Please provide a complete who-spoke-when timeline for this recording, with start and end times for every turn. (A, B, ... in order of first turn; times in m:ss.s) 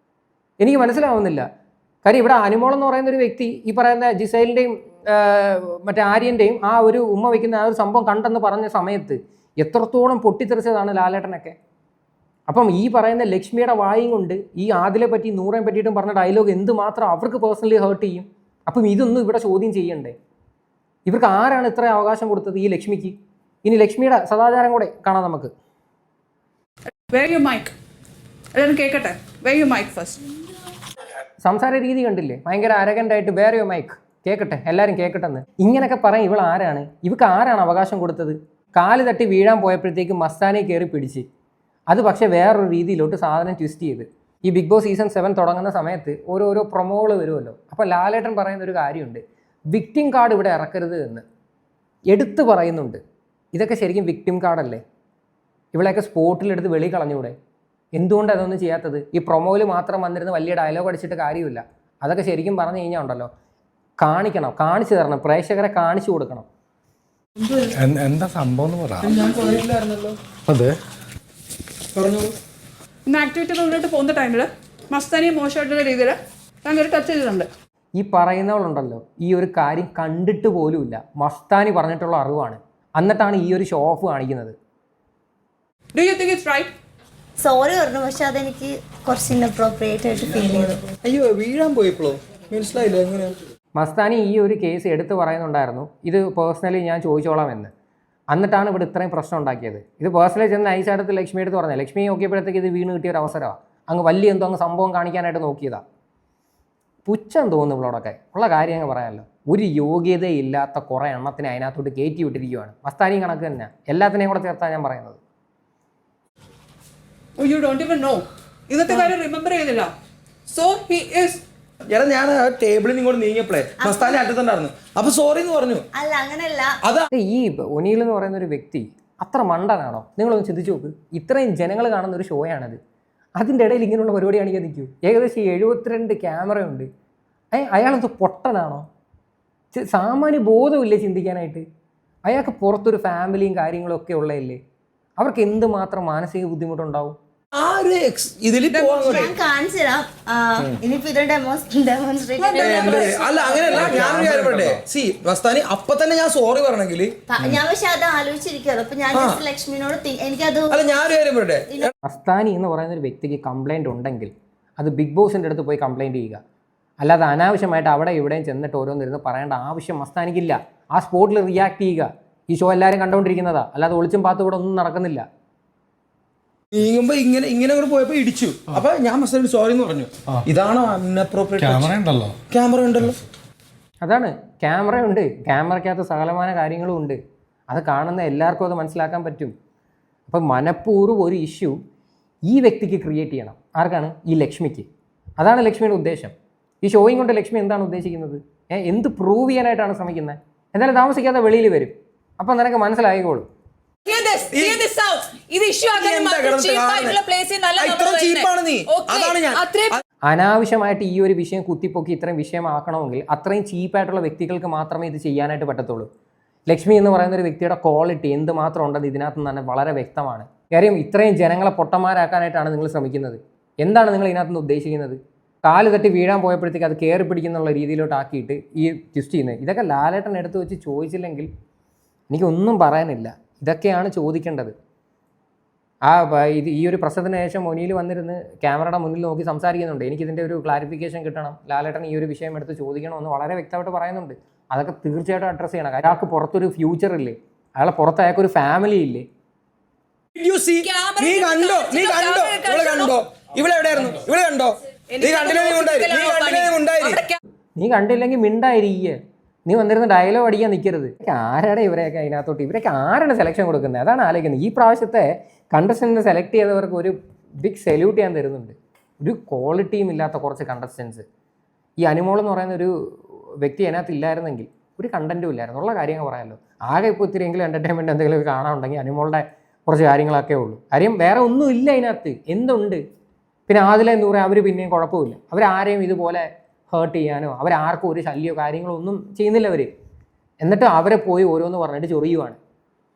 0:00.6-0:01.5 A
0:02.0-0:11.6 A
0:12.5-0:20.2 A
0:21.1-0:25.5 A
0:27.1-0:27.8 B
0:28.5-0:30.3 B
0:31.4-0:41.3 A
0:41.9-0:51.2 A
0:52.1-0:53.0 A
0:53.5-0:54.8 A
0:55.7-0:57.4 A
0:58.0-1:03.3 A
1:04.0-1:06.5 A
1:07.7-1:09.2 C
1:09.0-1:10.2 D
1:10.5-1:10.8 C
1:12.0-1:12.3 D
1:13.1-1:17.5 B
1:18.0-1:24.6 A
1:26.0-1:26.7 B
1:27.4-1:31.0 E
1:31.0-1:33.4 D
1:33.8-1:37.7 A
1:38.3-1:45.8 A
1:47.0-1:55.2 A
1:57.4-1:59.9 B
2:00.5-2:01.4 B
2:01.9-2:05.9 D
2:03.8-2:04.2 E
2:05.9-2:06.8 E
2:06.8-2:07.1 D
2:07.1-2:12.8 A
2:13.4-2:16.9 A
2:17.5-2:18.9 A
2:19.7-2:21.6 A
2:22.3-2:24.6 A
2:25.2-2:27.2 A
2:27.5-2:29.3 D
2:28.7-2:29.2 B
2:29.0-2:34.2 E
2:32.4-2:34.3 B
2:32.6-2:37.3 D
2:33.8-2:34.8 C
2:37.3-2:41.0 E
2:39.1-2:39.4 D
2:40.7-2:41.9 D
2:42.0-2:46.4 A
2:47.0-2:55.2 A
2:56.7-3:02.0 D
3:01.6-3:02.5 C
3:02.5-3:03.2 D
3:04.0-3:07.2 A
3:07.7-3:09.5 A
3:10.3-3:11.8 A
3:12.5-3:14.9 A
3:15.4-3:23.5 A
3:24.1-3:30.0 B
3:24.5-3:24.8 D
3:25.9-3:27.2 D
3:27.8-3:30.0 D
3:30.3-3:36.1 A
3:36.7-3:51.5 A
3:52.3-3:54.7 A
3:56.0-4:09.3 A
4:10.4-4:17.2 D
4:10.8-4:13.2 B
4:15.1-4:17.4 B
4:17.8-4:31.2 A
4:32.0-4:43.0 A
4:43.7-4:49.9 A
4:50.6-4:52.6 A